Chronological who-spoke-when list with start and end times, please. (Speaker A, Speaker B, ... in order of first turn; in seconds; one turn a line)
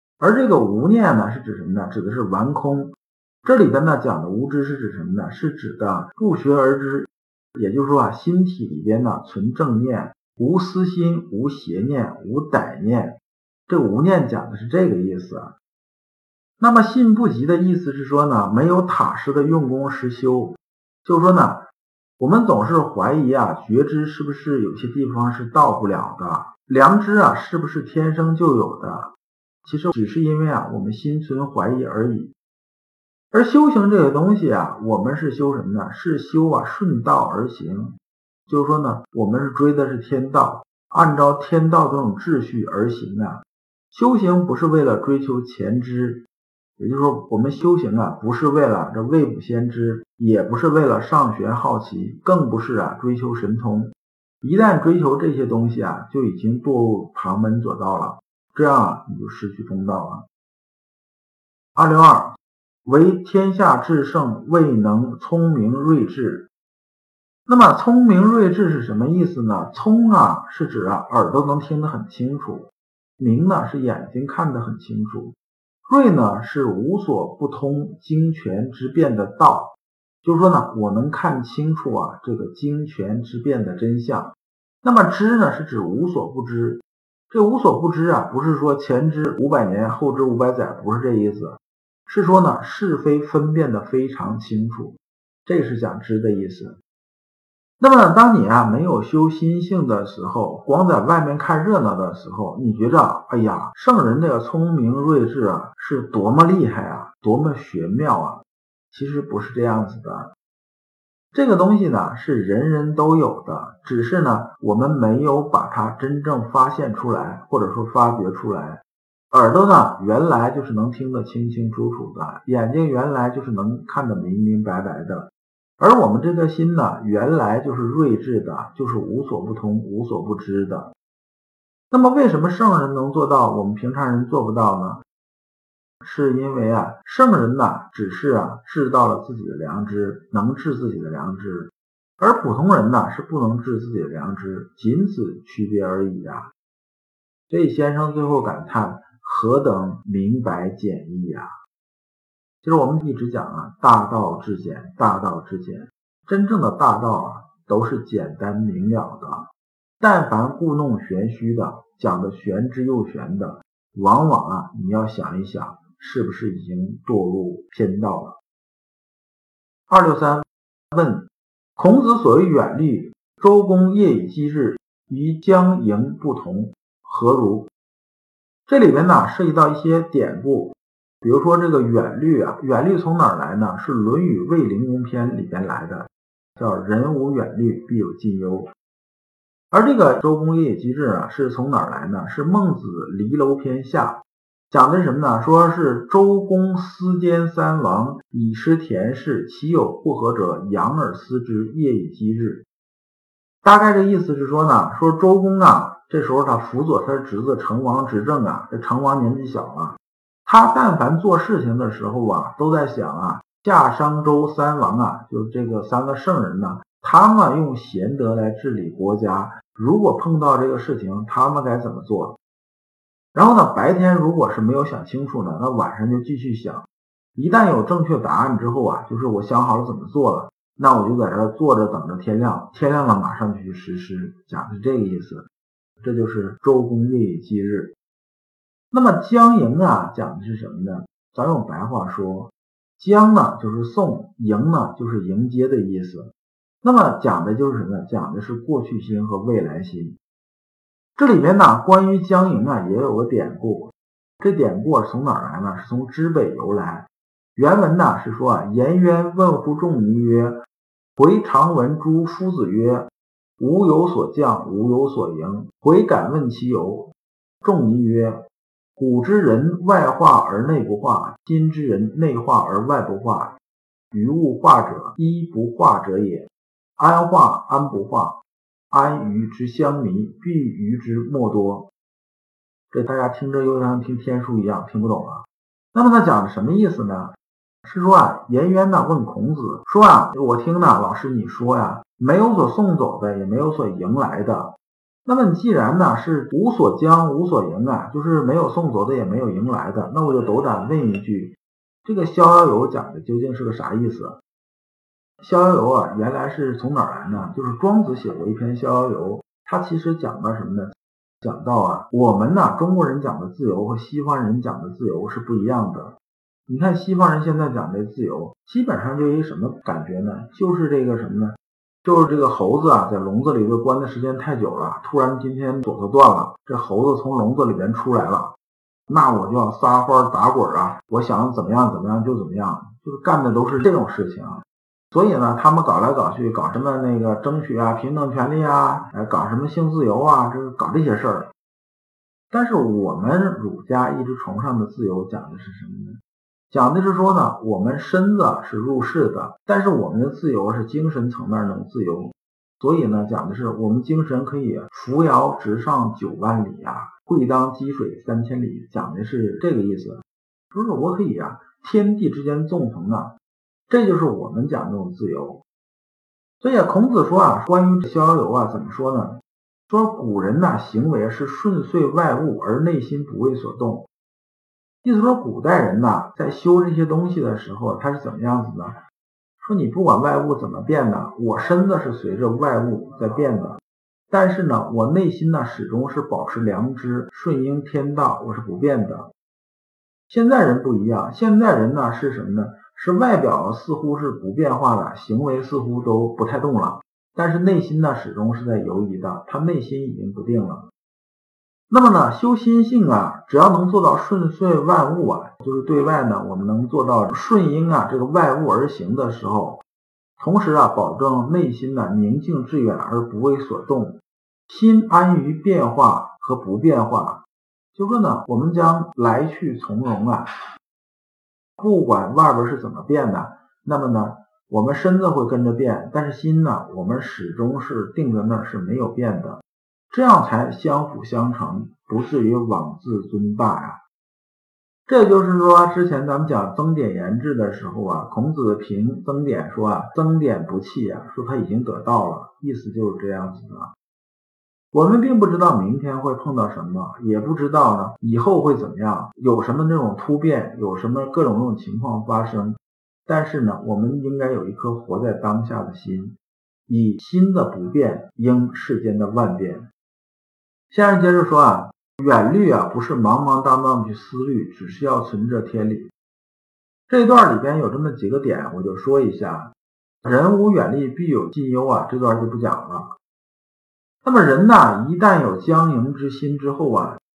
Speaker A: 0.2-2.9
Speaker A: 3.4-13.2
Speaker A: 13.7-15.5
Speaker A: 16.6-21.6
Speaker A: 22.2-29.1
Speaker A: 29.6-32.3
Speaker A: 33.3-37.9
Speaker A: 38.5-43.4
Speaker A: 43.9-46.2
Speaker A: 46.8-60.2
Speaker A: 61.8-62.3
Speaker A: 62.9-66.5
Speaker A: 67.5-72.7
Speaker A: 73.2-75.3
Speaker A: 75.9-79.7
Speaker A: 80.2-84.3
Speaker A: 84.8-91.6
Speaker A: 92.1-96.8
Speaker A: 97.8-108.4
Speaker A: 108.9-110.3
Speaker A: 111.3-130.9
Speaker A: 131.9-135.0
Speaker A: 136.0-146.5
Speaker A: 147.5-151.5
Speaker A: 152.6-159.5
Speaker A: 160.0-168.4
Speaker A: 169.9-171.2
Speaker A: 171.8-177.7
Speaker A: 178.7-188.7
Speaker A: 189.7-194.2
Speaker A: 194.7-202.6
Speaker A: 203.6-209.9
Speaker A: 210.5-222.4
Speaker A: 223.3-235.5
Speaker A: 236.0-237.9
Speaker A: 238.9-246.3
Speaker A: 246.8-250.2
Speaker A: 251.2-260.6
Speaker A: 261.2-263.1
Speaker A: 263.6-267.1
Speaker A: 267.6-268.4
Speaker A: 269.0-273.5
Speaker A: 274.1-276.5
Speaker A: 277.0-278.4
Speaker A: 278.9-281.9
Speaker A: 282.9-285.4
Speaker A: 285.9-287.3
Speaker A: 287.9-294.7
Speaker A: 295.2-301.5
Speaker A: 302.1-304.4
Speaker A: 305.4-310.9
Speaker A: 311.4-316.1
Speaker A: 316.7-328.5
Speaker A: 329.1-334.6
Speaker A: 335.1-341.5
Speaker A: 342.5-346.2
Speaker A: 346.7-360.2
Speaker A: 360.7-363.3
Speaker A: 363.9-365.6
Speaker A: 366.6-369.4
Speaker A: 369.9-374.1
Speaker A: 375.0-379.0
Speaker A: 379.6-383.8
Speaker A: 384.3-389.3
Speaker A: 390.3-400.8
Speaker A: 401.9-409.8
Speaker A: 410.4-414.1
Speaker A: 414.7-417.4
Speaker A: 417.9-420.5
Speaker A: 421.8-434.0
Speaker A: 435.1-443.9
Speaker A: 444.9-452.8
Speaker A: 453.3-456.3
Speaker A: 456.9-459.8
Speaker A: 460.9-466.1
Speaker A: 467.1-469.7
Speaker A: 470.2-473.1
Speaker A: 474.2-477.2